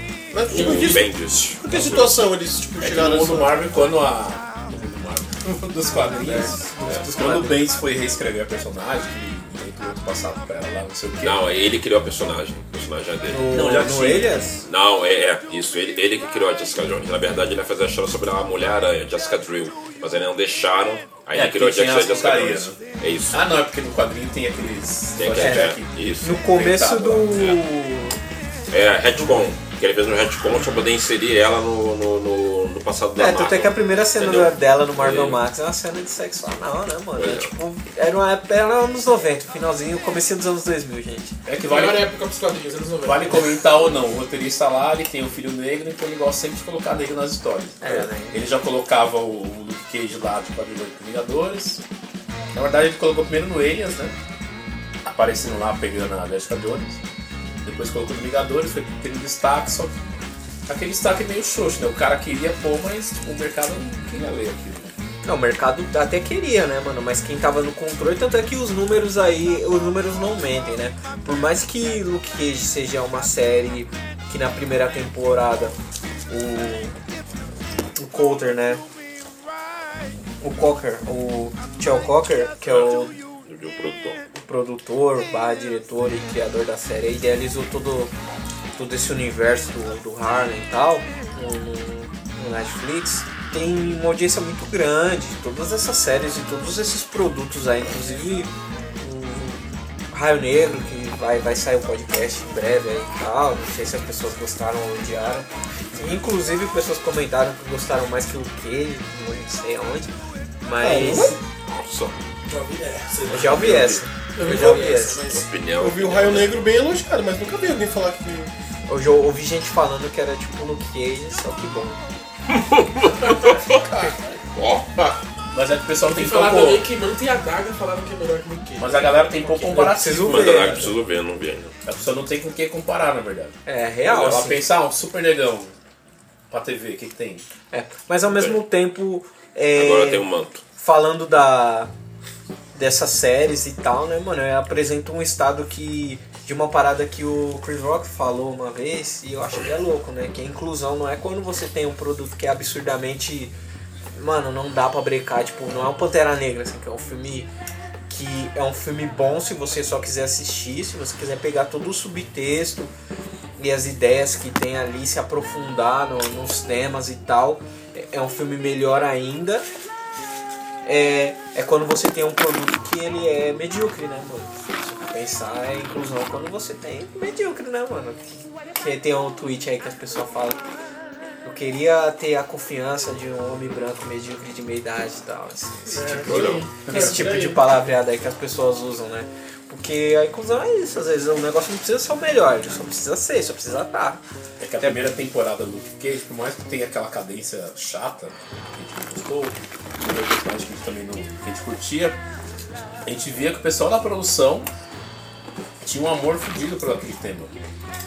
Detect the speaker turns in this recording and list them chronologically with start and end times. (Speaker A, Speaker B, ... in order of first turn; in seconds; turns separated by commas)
Speaker A: 0.3-3.6, Speaker B: 0.5-2.3, Speaker C: 2.8-11.4, Speaker D: 5.9-7.6, Speaker B: 6.8-7.1, Speaker B: 11.2-13.7, Speaker D: 13.3-14.6, Speaker C: 13.5-14.3, Speaker B: 14.7-23.6, Speaker C: 21.3-27.4, Speaker B: 25.1-26.4, Speaker D: 25.4-25.7, Speaker D: 26.2-28.2, Speaker B: 27.3-27.6, Speaker B: 28.7-35.4, Speaker D: 29.1-29.5, Speaker D: 33.1-41.4, Speaker B: 37.2-37.5, Speaker C: 41.5-42.0, Speaker E: 41.6-43.6, Speaker C: 43.0-51.8, Speaker D: 47.8-48.4, Speaker C: 52.5-54.1, Speaker C: 55.0-57.0, Speaker C: 57.6-60.0, Speaker C: 60.7-64.9, Speaker D: 65.2-75.7, Speaker D: 76.3-77.0, Speaker D: 78.0-78.8, Speaker D: 80.4-83.1, Speaker B: 82.7-84.2, Speaker D: 84.3-88.1, Speaker D: 88.8-110.1, Speaker D: 110.6-111.4, Speaker A: 110.8-111.4, Speaker B: 111.7-112.2, Speaker E: 112.5-113.8, Speaker C: 113.3-114.0, Speaker D: 113.3-115.2, Speaker E: 114.3-115.5, Speaker B: 115.2-116.6, Speaker A: 115.8-118.5, Speaker D: 118.9-122.0, Speaker B: 122.5-125.2, Speaker E: 123.2-123.5, Speaker C: 125.5-126.9, Speaker E: 126.0-129.9, Speaker C: 128.8-130.8, Speaker D: 129.8-130.9, Speaker B: 130.1-131.7, Speaker C: 131.8-135.7, Speaker D: 133.7-134.6, Speaker C: 136.5-137.4, Speaker D: 137.7-141.9, Speaker B: 138.3-138.6, Speaker B: 139.7-140.6, Speaker D: 142.7-153.5, Speaker D: 154.2-157.5, Speaker D: 158.1-162.9, Speaker D: 163.6-169.6, Speaker D: 170.8-180.6, Speaker D: 181.4-194.2, Speaker E: 185.9-187.6, Speaker B: 186.2-186.7, Speaker C: 194.6-202.2, Speaker C: 203.1-204.7, Speaker C: 205.8-207.5